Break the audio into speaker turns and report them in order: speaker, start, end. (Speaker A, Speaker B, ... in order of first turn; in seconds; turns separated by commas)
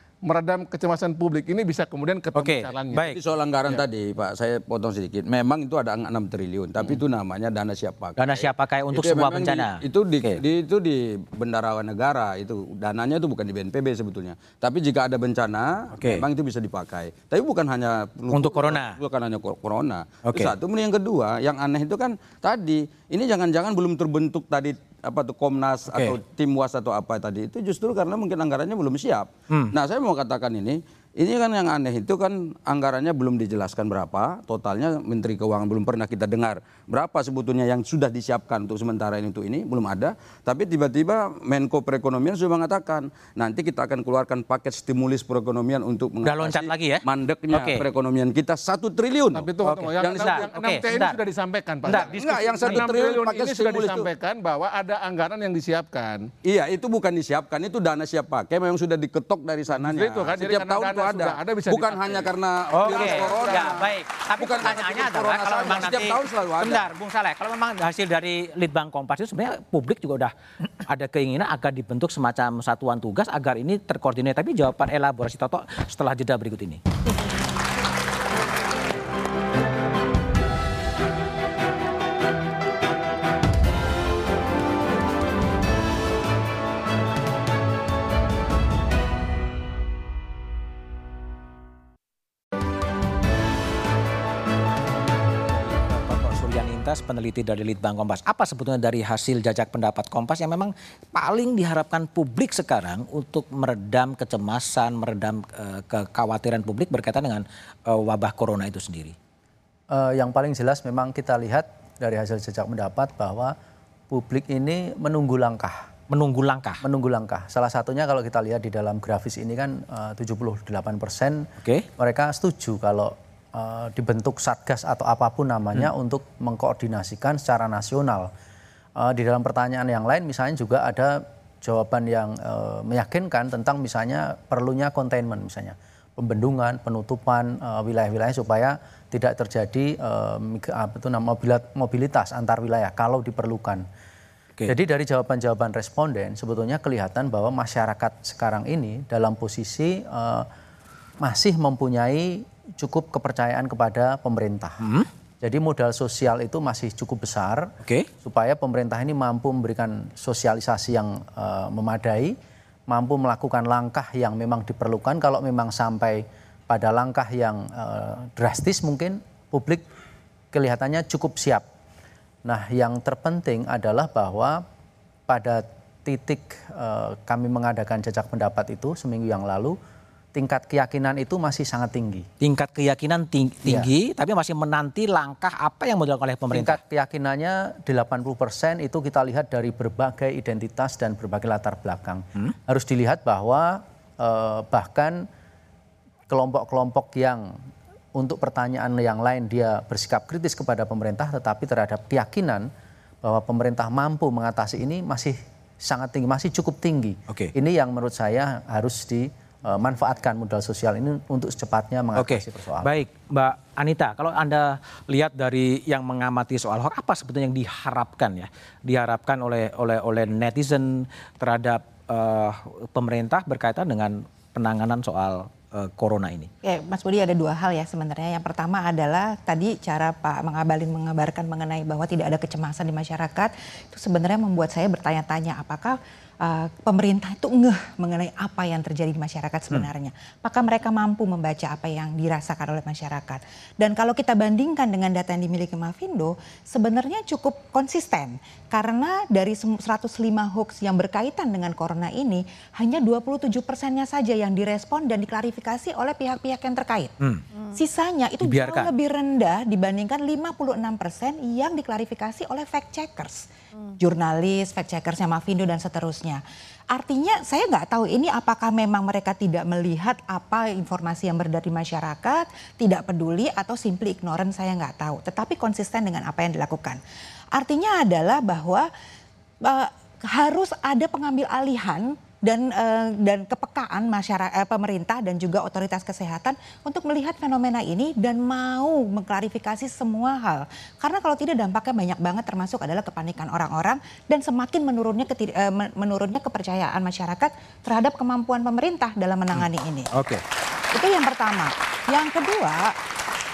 Speaker A: 0.2-3.1, Speaker B: 2.3-3.1, Speaker C: 3.1-49.5, Speaker B: 8.2-10.4, Speaker B: 15.9-16.2, Speaker B: 18.3-19.0, Speaker B: 20.3-20.5, Speaker B: 25.9-26.2, Speaker B: 46.2-47.8, Speaker A: 49.3-56.3, Speaker B: 49.6-51.2, Speaker C: 50.0-50.5, Speaker B: 51.9-52.9, Speaker C: 51.9-54.1, Speaker C: 56.4-66.9, Speaker A: 59.7-63.7, Speaker B: 62.7-70.3, Speaker B: 70.8-76.8, Speaker B: 95.6-109.1, Speaker D: 109.9-113.5, Speaker D: 114.1-115.8, Speaker B: 116.1-116.8, Speaker D: 116.8-128.3, Speaker D: 129.0-143.8, Speaker D: 144.7-150.5, Speaker D: 151.2-154.8, Speaker B: 154.8-155.1, Speaker D: 155.4-157.7, Speaker B: 157.8-158.1, Speaker D: 158.2-162.3, Speaker D: 162.9-169.8, Speaker D: 170.5-171.6, Speaker D: 172.4-174.6, Speaker D: 175.3-179.8, Speaker D: 180.3-182.2, Speaker B: 182.4-186.8, Speaker D: 186.5-195.3, Speaker D: 196.3-197.6, Speaker D: 198.1-202.7, Speaker D: 203.2-212.9, Speaker B: 212.2-226.5, Speaker E: 226.6-257.1, Speaker E: 257.7-263.5, Speaker B: 258.4-258.9, Speaker E: 264.0-277.0, Speaker E: 277.5-278.9, Speaker E: 279.6-300.1, Speaker B: 299.6-300.4, Speaker E: 300.9-302.9